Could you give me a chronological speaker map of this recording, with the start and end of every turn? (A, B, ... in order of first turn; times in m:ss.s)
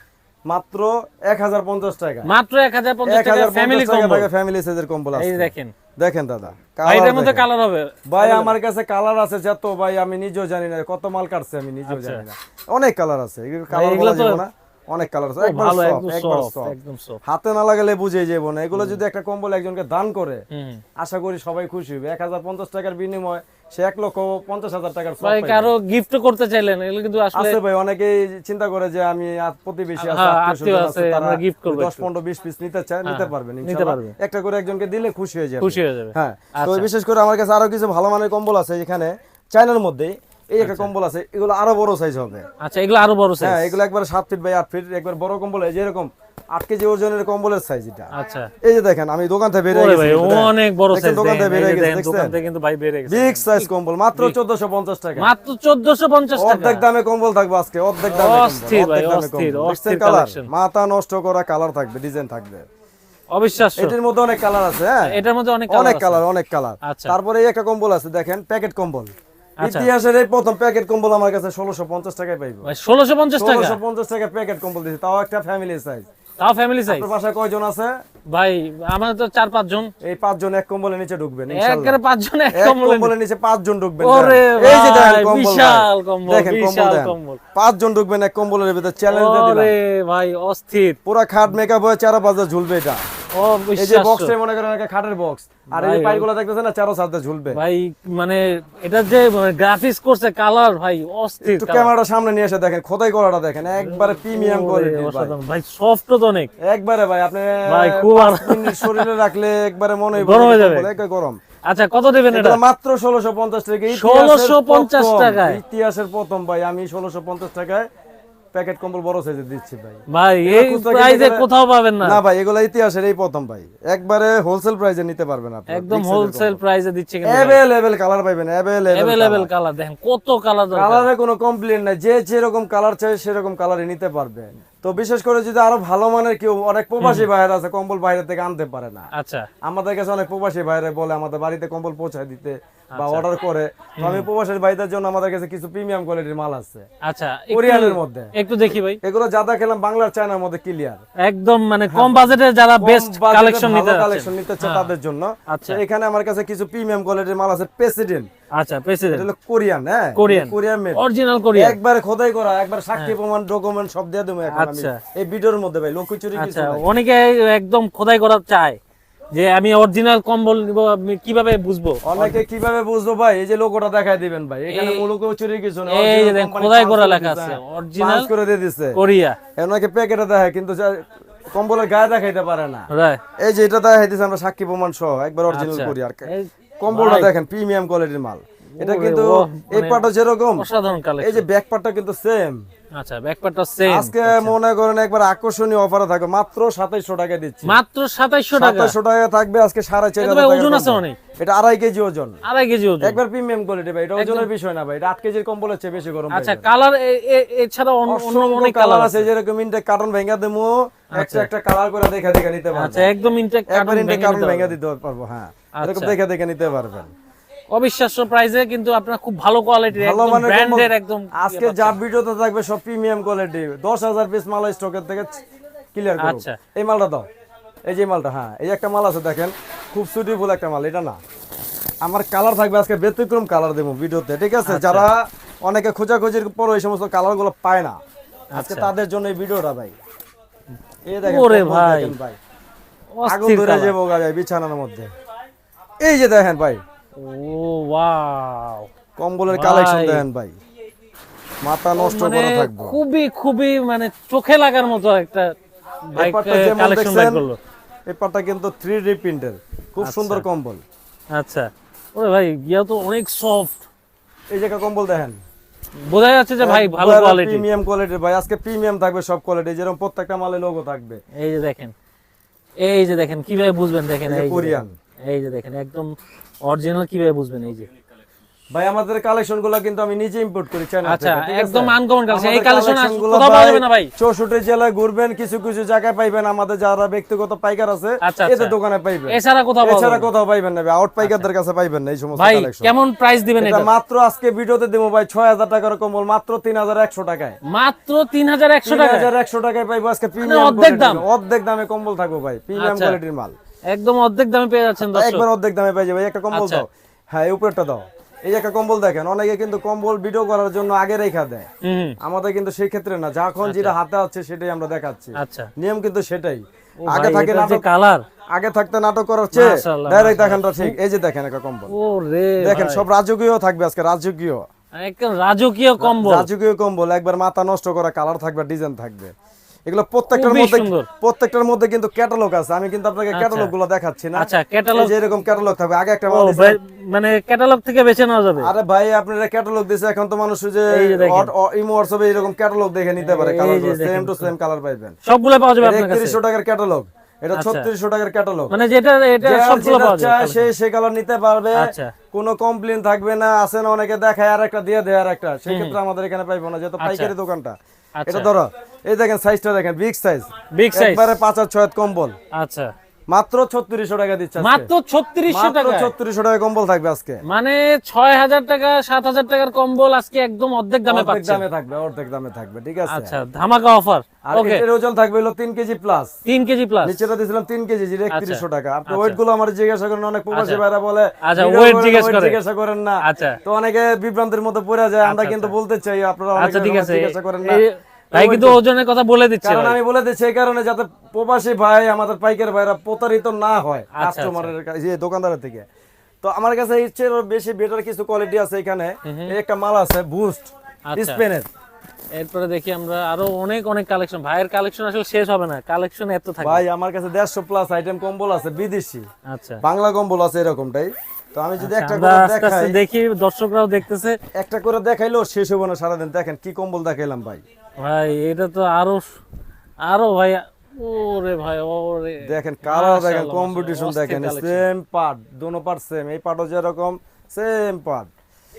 0:00.5-0:02.3 A
0:02.2-0:04.3 B
0:03.1-0:07.4 A
0:05.1-0:05.7 B
0:06.8-0:08.6 B
0:08.1-0:20.4 A
0:11.9-0:12.2 B
0:13.7-0:14.4 B
0:15.4-0:17.2 B
0:18.7-0:19.0 B
0:20.5-0:20.8 B
0:21.0-0:25.7 A
0:25.2-0:27.6 B
0:27.3-0:42.4 A
0:30.0-0:32.1 B
0:33.0-0:34.1 B
0:35.6-0:36.9 B
0:40.6-0:40.9 B
0:42.6-0:43.8 B
0:43.4-0:52.4 A
0:48.1-0:48.5 B
0:49.7-0:54.4 B
0:53.1-0:55.3 A
0:55.2-0:56.8 B
0:56.4-1:02.6 A
0:58.0-1:00.5 B
1:03.3-1:04.0 B
1:03.8-1:05.2 A
1:05.0-1:06.2 B
1:05.7-1:09.1 A
1:06.8-1:07.2 B
1:09.6-1:09.9 B
1:09.6-1:12.7 A
1:12.6-1:13.8 B
1:13.4-1:16.1 A
1:16.4-1:17.1 B
1:16.9-1:17.9 A
1:18.3-1:19.9 B
1:20.0-1:22.0 A
1:21.5-1:23.1 B
1:22.5-1:29.7 A
1:24.0-1:27.4 B
1:29.1-1:31.0 B
1:31.0-1:33.0 A
1:33.4-1:34.3 B
1:33.8-1:37.6 A
1:35.7-1:36.3 B
1:37.5-1:41.9 B
1:41.4-1:45.3 A
1:43.8-1:46.5 B
1:46.6-1:51.4 A
1:47.7-1:49.1 B
1:50.1-1:50.9 B
1:51.7-1:52.6 B
1:52.3-1:57.9 A
1:53.9-1:55.6 B
1:58.5-2:01.5 A
2:00.1-2:02.2 B
2:02.0-2:06.6 A
2:05.7-2:07.6 B
2:07.3-2:09.5 A
2:08.9-2:11.1 B
2:10.8-2:19.1 A
2:17.0-2:17.3 B
2:19.1-2:19.5 B
2:19.6-2:26.8 A
2:22.9-2:23.2 B
2:24.0-2:24.3 B
2:27.0-2:29.0 B
2:27.5-2:28.3 A
2:29.0-2:31.0 A
2:31.2-2:34.9 B
2:31.9-2:38.3 A
2:35.5-2:35.8 B
2:38.5-2:39.2 B
2:39.1-2:41.0 A
2:40.2-2:41.8 B
2:41.5-2:46.8 A
2:44.5-2:45.0 B
2:46.3-2:48.8 B
2:49.3-2:52.4 B
2:52.0-2:59.0 A
2:54.7-2:55.0 B
2:55.9-2:58.3 B
2:58.9-2:59.4 B
2:59.6-3:06.3 A
3:02.9-3:03.2 B
3:05.5-3:07.3 B
3:06.8-3:10.6 A
3:08.8-3:11.4 B
3:11.2-3:12.6 A
3:12.9-3:14.5 B
3:13.9-3:17.8 A
3:17.6-3:19.0 B
3:18.5-3:22.4 A
3:20.2-3:21.2 B
3:22.4-3:23.2 B
3:23.0-3:26.7 A
3:24.2-3:24.5 B
3:26.3-3:29.3 B
3:28.1-3:33.1 A
3:31.1-3:31.5 B
3:32.7-3:34.8 B
3:33.7-3:37.1 A
3:35.8-3:36.2 B
3:37.7-3:42.0 B
3:39.9-3:45.4 A
3:45.9-3:47.2 A
3:46.2-3:46.6 B
3:47.9-3:51.2 A
3:52.0-3:58.0 A
3:54.6-3:55.1 B
3:58.5-3:58.9 B
3:58.5-3:59.9 A
4:01.1-4:02.4 A
4:01.2-4:02.1 B
4:03.2-4:04.0 B
4:03.3-4:05.1 A
4:06.0-4:06.8 A
4:07.2-4:08.9 B
4:09.2-4:10.5 A
4:09.5-4:10.2 B
4:11.6-4:13.0 A
4:11.9-4:15.5 B
4:16.1-4:17.6 B
4:16.2-4:17.4 A
4:18.1-4:20.8 A
4:20.0-4:20.4 B
4:21.3-4:23.8 B
4:24.5-4:25.4 A
4:26.0-4:27.7 B
4:26.6-4:31.2 A
4:31.3-4:31.9 B
4:32.8-4:36.1 B
4:34.3-4:34.9 A
4:36.6-4:37.9 B
4:38.7-4:52.9 A
4:41.0-4:44.1 B
4:48.2-4:48.8 B
4:49.3-4:50.3 B
4:51.2-4:51.5 B
4:52.4-4:53.9 B
4:53.6-4:57.6 A
4:57.7-4:59.3 B
4:58.8-5:03.5 A
5:00.4-5:01.2 B
5:02.8-5:03.2 B
5:03.9-5:05.4 B
5:05.0-5:11.7 A
5:06.5-5:06.8 B
5:11.8-5:12.2 B
5:12.2-5:17.8 A
5:13.6-5:13.9 B
5:15.4-5:15.7 B
5:17.0-5:18.2 B
5:18.5-5:21.9 A
5:19.5-5:21.0 B
5:21.9-5:23.0 B
5:22.6-5:24.6 A
5:24.9-5:26.5 B
5:26.0-5:29.3 A
5:29.9-5:36.8 A
5:30.3-5:31.1 B
5:33.3-5:33.7 B
5:34.4-5:35.1 B
5:36.3-5:38.7 B
5:38.6-5:45.2 A
5:40.9-5:41.5 B
5:43.2-5:44.5 B
5:45.2-5:46.4 B
5:45.8-5:48.8 A
5:47.5-5:47.9 B
5:48.7-5:50.7 B
5:49.4-5:57.8 A
5:51.8-5:52.1 B
5:55.7-5:56.0 B
5:57.0-5:57.3 B
5:58.2-5:58.5 B
5:58.3-6:02.4 A
6:00.7-6:01.4 B
6:02.5-6:02.9 B
6:03.3-6:04.9 A
6:04.6-6:06.1 B
6:05.5-6:07.4 A
6:07.5-6:11.6 B
6:11.1-6:13.4 A
6:13.1-6:14.8 B
6:14.4-6:16.3 A
6:16.4-6:17.2 B
6:17.0-6:27.8 A
6:18.3-6:19.4 B
6:20.5-6:20.8 B
6:21.4-6:22.6 B
6:23.2-6:23.6 B
6:25.2-6:25.8 B
6:26.6-6:30.0 B
6:28.3-6:28.8 A
6:29.6-6:35.8 A
6:34.1-6:34.7 B
6:36.4-6:41.7 A
6:39.2-6:39.5 B
6:41.1-6:41.4 B
6:42.3-6:46.8 B
6:46.6-6:49.2 A
6:49.5-6:49.8 B
6:49.8-6:53.0 A
6:51.8-6:54.4 B
6:54.5-6:57.6 A
6:58.0-6:59.2 B
7:00.0-7:04.8 B
7:02.4-7:08.3 A